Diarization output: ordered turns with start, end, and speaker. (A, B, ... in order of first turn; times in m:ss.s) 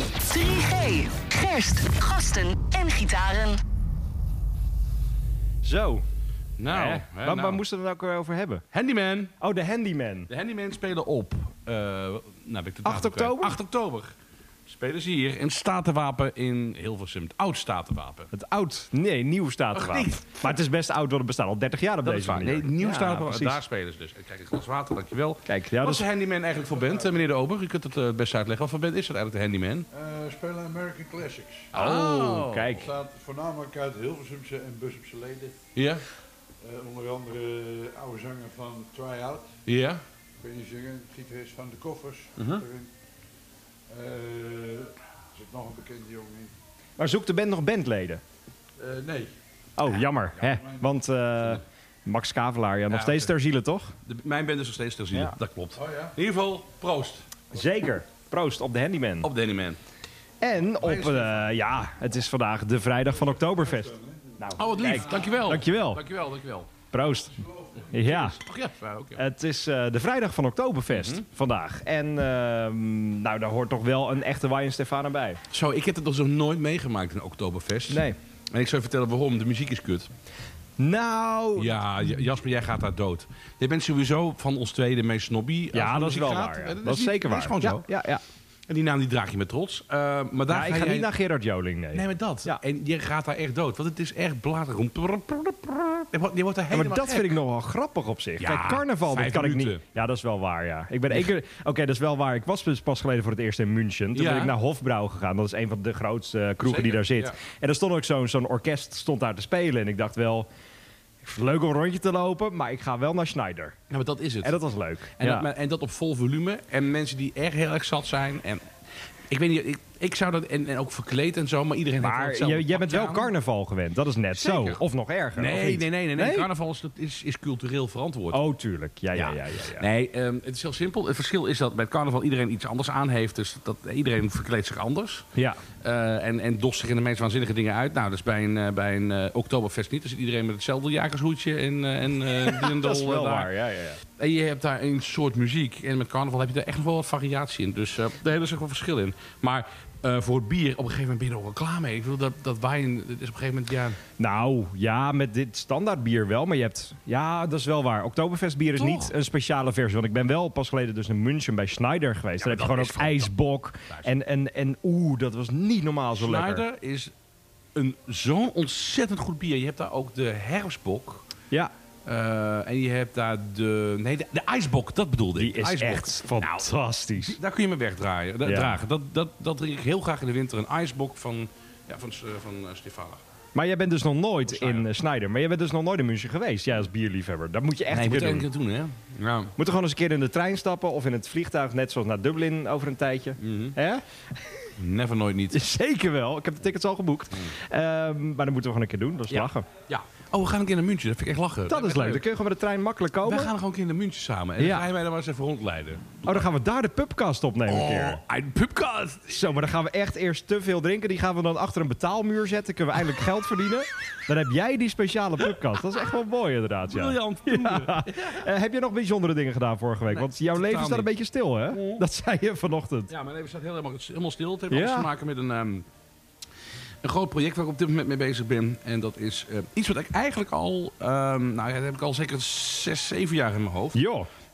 0:00.2-0:03.6 A
0:05.6-0:06.0 B
0:06.6-0:07.6 C
0:06.6-0:08.6 B
0:08.7-0:09.4 C
0:09.4-0:10.3 B
0:10.3-0:14.1 C
0:12.8-0:13.6 B
0:14.6-0:18.3 C
0:18.3-0:23.6 B
0:19.7-0:20.6 C
0:22.0-0:29.9 C
0:25.4-0:26.0 B
0:26.6-0:27.1 D
0:29.9-0:31.7 D
0:31.7-0:32.9 C
0:31.7-0:32.9 B
0:32.8-0:35.6 D
0:35.7-0:36.0 C
0:36.6-0:39.5 D
0:39.6-0:40.0 C
0:40.4-0:42.9 D
0:42.4-0:42.6 C
0:43.9-0:46.5 D
0:47.0-0:48.2 B
0:48.8-0:49.3 D
0:49.8-0:53.9 B
0:50.4-0:50.9 D
0:52.9-0:53.3 C
0:54.0-0:57.2 C
0:55.8-0:56.2 D
0:57.5-0:59.3 B
0:59.2-0:59.8 C
1:00.4-1:06.0 B
1:00.8-1:01.5 C
1:03.2-1:05.3 D
1:04.6-1:06.7 C
1:06.9-1:08.4 B
1:07.4-1:07.9 D
1:07.9-1:09.2 C
1:09.2-1:15.4 B
1:10.9-1:11.2 C
1:15.5-1:20.1 C
1:17.9-1:18.2 B
1:20.8-1:21.8 B
1:21.6-1:27.8 C
1:25.7-1:28.2 B
1:28.7-1:31.1 C
1:30.5-1:32.6 B
1:31.9-1:37.4 C
1:36.7-1:50.5 B
1:38.4-1:39.8 C
1:44.1-1:44.5 C
1:46.6-1:47.4 C
1:51.2-1:53.8 B
1:53.9-1:54.6 C
1:54.4-1:55.5 B
1:55.2-1:58.7 C
1:59.3-2:03.3 C
2:02.0-2:06.5 B
2:04.3-2:04.8 C
2:05.3-2:08.4 C
2:08.3-2:09.9 B
2:09.1-2:23.5 C
2:15.3-2:15.6 B
2:22.3-2:24.0 B
2:24.0-2:34.0 C
2:34.2-2:46.6 B
2:38.8-2:39.1 C
2:42.4-2:43.3 C
2:46.1-2:47.1 C
2:47.7-2:51.2 C
2:52.0-3:03.2 C
2:55.4-2:57.4 B
2:58.4-2:58.8 B
3:03.5-3:08.5 B
3:04.5-3:04.8 C
3:07.9-3:09.5 C
3:09.6-3:14.7 B
3:13.4-3:13.8 C
3:14.8-3:15.6 C
3:15.5-3:19.7 B
3:19.3-3:22.2 C
3:21.7-3:23.5 B
3:23.2-3:26.4 C
3:24.6-3:24.9 B
3:26.2-3:28.2 B
3:27.7-3:29.4 C
3:29.3-3:43.1 B
3:36.9-3:38.5 C
3:40.1-3:41.1 C
3:41.7-3:42.0 C
3:43.1-3:45.9 C
3:44.7-3:45.1 B
3:47.0-3:54.0 C
3:53.9-3:54.3 B